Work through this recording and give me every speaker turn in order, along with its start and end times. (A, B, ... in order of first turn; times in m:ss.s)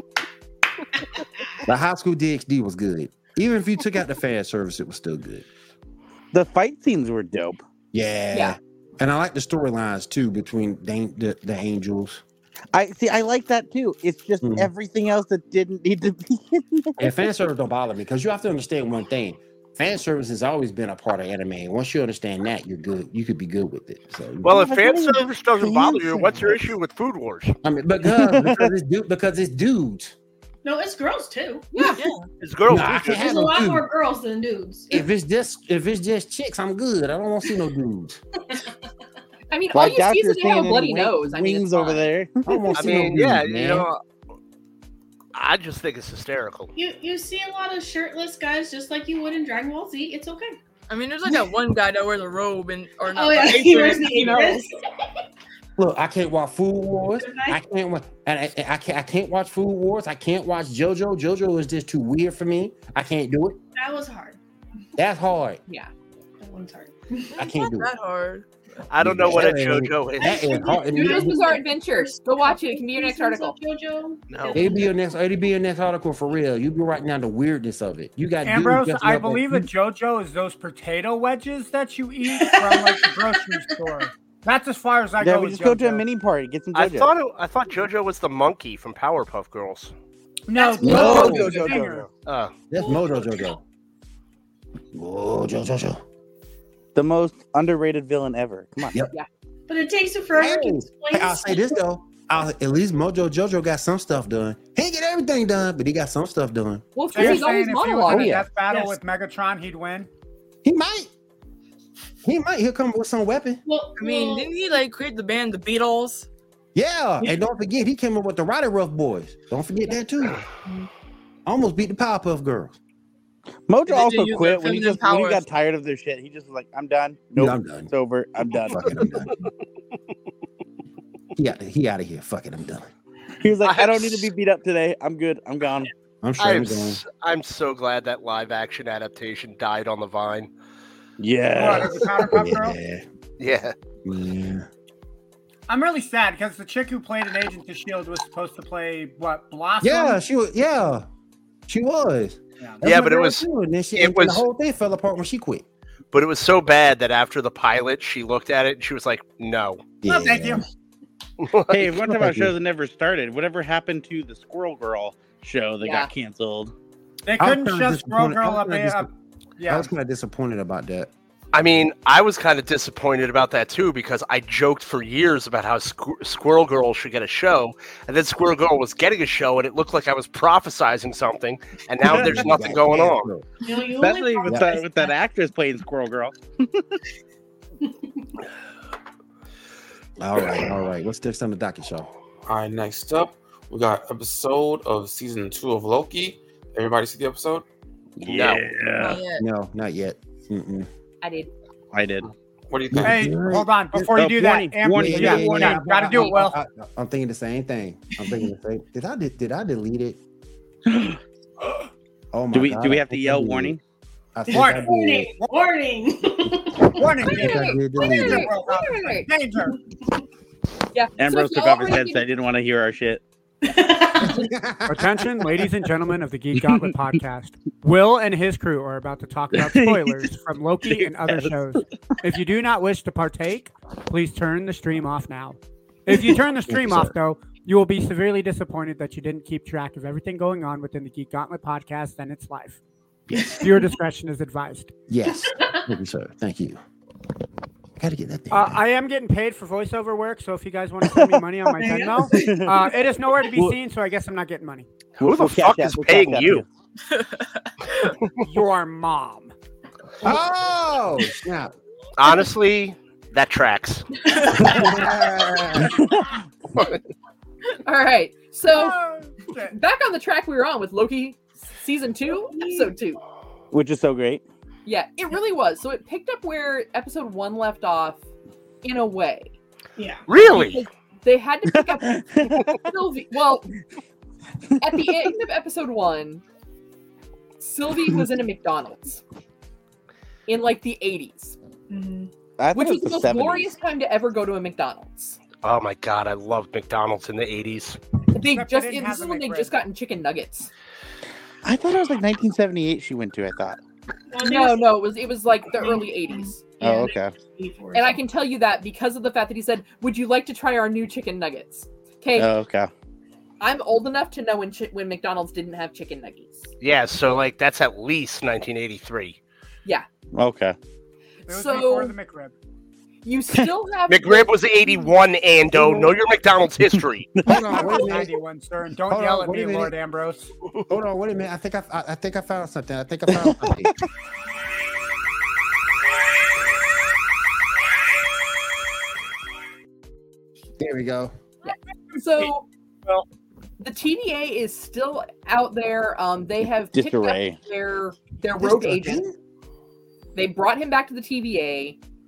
0:01.6-0:05.4 A
0:06.3-0:07.6 B
0:07.9-0:12.2 A
0:12.7-0:17.1 B
0:14.4-0:14.7 A
0:17.0-0:24.7 A
0:24.4-0:27.5 C
0:24.5-0:26.5 B
0:27.6-0:30.1 A
0:28.0-0:28.7 B
0:30.6-0:31.7 D
0:31.7-0:32.0 E
0:32.0-0:32.2 F
0:32.4-0:33.3 C
0:32.7-0:33.9 A
0:33.0-0:35.1 D
0:34.9-0:38.2 A
0:39.5-0:42.0 E
0:39.7-0:42.5 B
0:42.4-0:43.9 A
0:42.7-0:44.0 C
0:45.3-0:46.7 C
0:46.7-0:50.6 D
0:50.9-0:54.7 F
0:51.2-0:51.5 D
0:53.1-0:54.7 D
0:55.8-1:03.6 A
0:57.2-0:57.6 D
1:03.7-1:04.4 D
1:05.0-1:05.6 A
1:06.4-1:07.4 D
1:07.4-1:07.9 A
1:07.4-1:08.5 F
1:08.9-1:10.4 C
1:09.0-1:11.4 A
1:10.2-1:14.9 D
1:10.9-1:13.6 E
1:14.3-1:14.6 C
1:14.5-1:19.7 A
1:18.4-1:26.0 G
1:22.3-1:23.9 D
1:25.2-1:27.1 B
1:26.7-1:29.9 C
1:30.5-1:32.1 G
1:30.5-1:31.5 D
1:30.8-1:31.6 A
1:30.8-1:32.0 F
1:30.8-1:31.3 B
1:32.0-1:32.5 C
1:32.7-1:33.6 A
1:32.8-1:33.2 D
1:34.9-1:36.0 A
1:36.9-1:38.9 B
1:39.7-1:41.8 D
1:40.4-1:47.4 A
1:47.0-1:48.4 E
1:47.1-1:50.1 G
1:48.1-1:48.5 A
1:48.7-1:48.9 D
1:50.6-1:51.1 A
1:52.2-1:53.6 A
1:53.6-1:54.5 D
1:54.0-1:56.3 F
1:56.7-2:00.4 A
2:01.4-2:02.8 A
2:03.7-2:09.0 B
2:03.9-2:05.4 F
2:07.4-2:07.9 A
2:08.7-2:09.5 A
2:11.4-2:12.9 A
2:13.4-2:15.9 B
2:13.6-2:14.3 C
2:16.2-2:17.0 A
2:16.4-2:20.5 C
2:21.2-2:22.3 B
2:21.5-2:22.8 G
2:21.7-2:23.0 A
2:23.4-2:23.7 C
2:24.0-2:24.7 A
2:25.7-2:30.2 G
2:29.8-2:31.0 A
2:31.7-2:35.6 A
2:32.8-2:33.4 C
2:34.0-2:34.4 C
2:36.1-2:39.8 C
2:40.0-2:40.6 A
2:40.0-2:40.6 G
2:41.4-2:41.9 C
2:41.7-2:46.7 B
2:41.9-2:42.5 A
2:45.8-2:46.1 E
2:47.2-2:49.9 G
2:47.4-2:49.1 A
2:49.7-2:51.1 A
2:51.5-3:03.3 C
3:02.0-3:03.4 A
3:02.1-3:02.5 B
3:03.6-3:05.1 D
3:04.0-3:07.0 B
3:10.2-3:12.1 A
3:12.4-3:17.6 H
3:18.2-3:19.2 B
3:18.2-3:18.6 C
3:19.0-3:19.4 F
3:19.4-3:20.9 A
3:21.2-3:21.5 E
3:21.9-3:22.3 B
3:22.7-3:23.4 H
3:22.9-3:23.7 A
3:23.0-3:26.6 G
3:23.9-3:25.8 B
3:24.9-3:30.2 A
3:30.9-3:31.2 B
3:32.3-3:33.7 A
3:32.5-3:33.8 B
3:34.3-3:35.3 A
3:34.5-3:35.5 G
3:34.5-3:37.1 D
3:36.9-3:39.8 G
3:37.2-3:39.3 E
3:37.3-3:38.5 A
3:40.9-3:42.2 E
3:41.2-3:43.2 B
3:43.6-3:44.5 D
3:44.2-3:45.4 A
3:44.8-4:02.8 G
3:49.5-3:50.3 B
3:50.9-3:51.5 B
3:56.7-3:57.1 A
4:03.3-4:03.9 D
4:03.6-4:04.9 G
4:05.1-4:06.8 A
4:05.3-4:05.8 D
4:08.0-4:08.7 A
4:08.5-4:14.9 G
4:11.0-4:11.4 B
4:11.8-4:12.5 D
4:11.9-4:12.9 B
4:15.2-4:16.6 B
4:15.2-4:16.6 C
4:17.1-4:18.1 F
4:18.4-4:19.5 G
4:20.2-4:21.7 A
4:22.2-4:24.1 C
4:24.4-4:25.1 D
4:24.5-4:26.0 A
4:25.8-4:26.4 B
4:27.8-4:29.0 E
4:28.7-4:29.7 G
4:29.6-4:33.2 E
4:32.5-4:32.9 D
4:33.7-4:34.4 B
4:34.8-4:38.2 E
4:38.8-4:39.5 E
4:40.0-4:40.2 D
4:40.3-4:40.8 C
4:40.5-4:43.7 E
4:42.0-4:42.8 B
4:44.8-4:46.4 E
4:47.6-4:49.2 E
4:50.5-4:51.6 E
4:51.9-4:52.3 D
4:52.6-4:53.7 B
4:52.7-4:55.4 E
4:55.6-4:58.0 C
4:58.3-5:00.7 E
4:58.5-4:59.7 G
5:01.6-5:03.8 B
5:04.3-5:04.9 D
5:04.4-5:06.6 E
5:05.8-5:08.2 D
5:06.8-5:07.3 B
5:07.9-5:12.5 E
5:12.4-5:12.9 B
5:13.6-5:16.7 E
5:16.8-5:19.4 C
5:20.3-5:20.8 B
5:21.5-5:22.5 G
5:21.5-5:22.1 E
5:23.2-5:24.6 E
5:24.1-5:27.3 C
5:25.7-5:26.1 A
5:27.4-5:27.8 B
5:27.4-5:28.3 A
5:27.7-5:30.5 G
5:29.1-5:29.9 A
5:30.9-5:33.9 A
5:33.3-5:33.8 B
5:40.8-5:41.3 A
5:41.6-5:42.7 E
5:43.8-5:49.2 E
5:46.9-5:47.6 B
5:48.6-5:49.3 A
5:50.3-5:52.0 E